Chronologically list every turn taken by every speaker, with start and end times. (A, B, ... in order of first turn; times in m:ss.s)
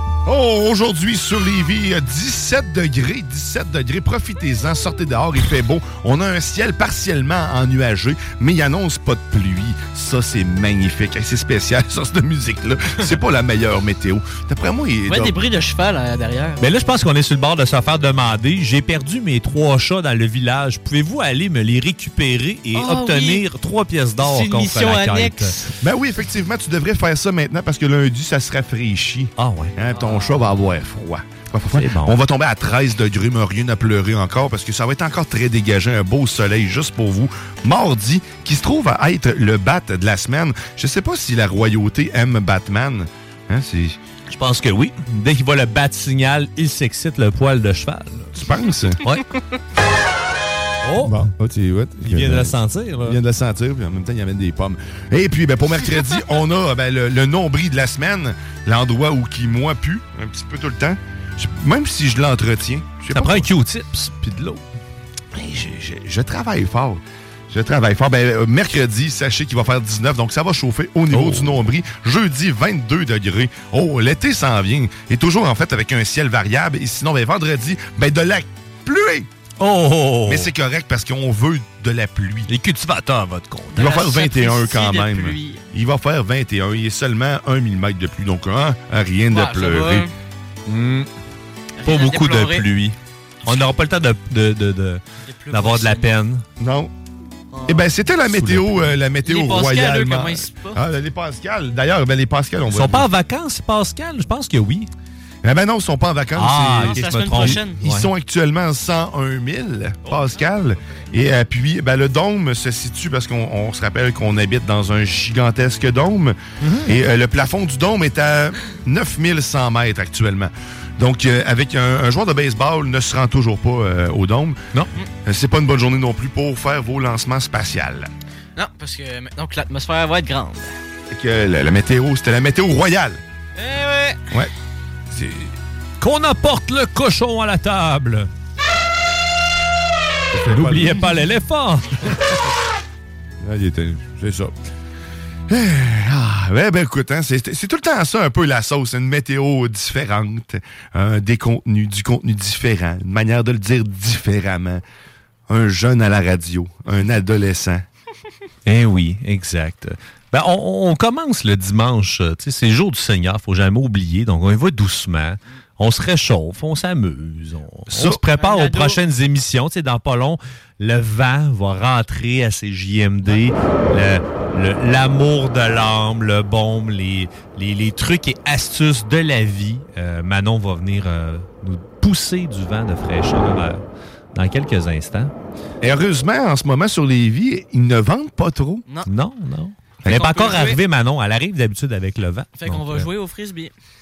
0:00.2-0:15.4 A
0:15.1-0:16.6 B
0:16.6-0:25.6 C
0:22.7-0:23.4 B
0:24.2-0:25.6 B
0:25.8-0:44.0 A
0:29.4-0:29.8 C
0:29.9-0:30.8 B
0:31.7-0:32.2 C
0:44.3-0:48.4 C
0:48.4-0:49.0 A
0:50.8-0:51.2 C
0:51.0-1:03.5 A
0:52.0-0:53.2 C
1:03.1-1:04.6 C
1:05.3-1:19.3 A
1:11.1-1:11.6 C
1:19.6-1:20.5 C
1:20.3-1:22.5 A
1:22.5-1:23.9 C
1:23.7-1:25.6 B
1:23.8-1:30.1 A
1:29.3-1:30.1 B
1:30.7-1:31.1 C
1:31.8-1:32.6 B
1:31.8-1:36.4 C
1:35.2-1:36.1 B
1:36.6-1:36.9 A
1:37.5-1:37.9 B
1:37.7-1:43.1 A
1:38.2-1:39.0 C
1:39.2-1:40.8 B
1:42.7-1:44.9 C
1:45.4-2:04.6 A
1:46.4-1:48.1 C
1:46.8-1:47.8 B
1:56.6-1:56.9 C
2:05.2-2:08.1 A
2:08.6-2:10.8 B
2:11.1-2:13.2 A
2:13.6-2:14.2 B
2:15.1-2:15.5 A
2:16.0-2:18.3 C
2:20.3-2:21.1 A
2:20.4-2:22.2 C
2:23.4-2:24.5 A
2:25.5-2:34.8 A
2:35.5-2:37.8 A
2:38.6-3:03.8 C
2:47.9-2:48.2 A
2:48.3-2:49.0 B
3:04.3-3:05.3 C
3:05.8-3:08.8 A
3:09.0-3:13.1 C
3:10.1-3:10.8 B
3:12.6-3:13.7 B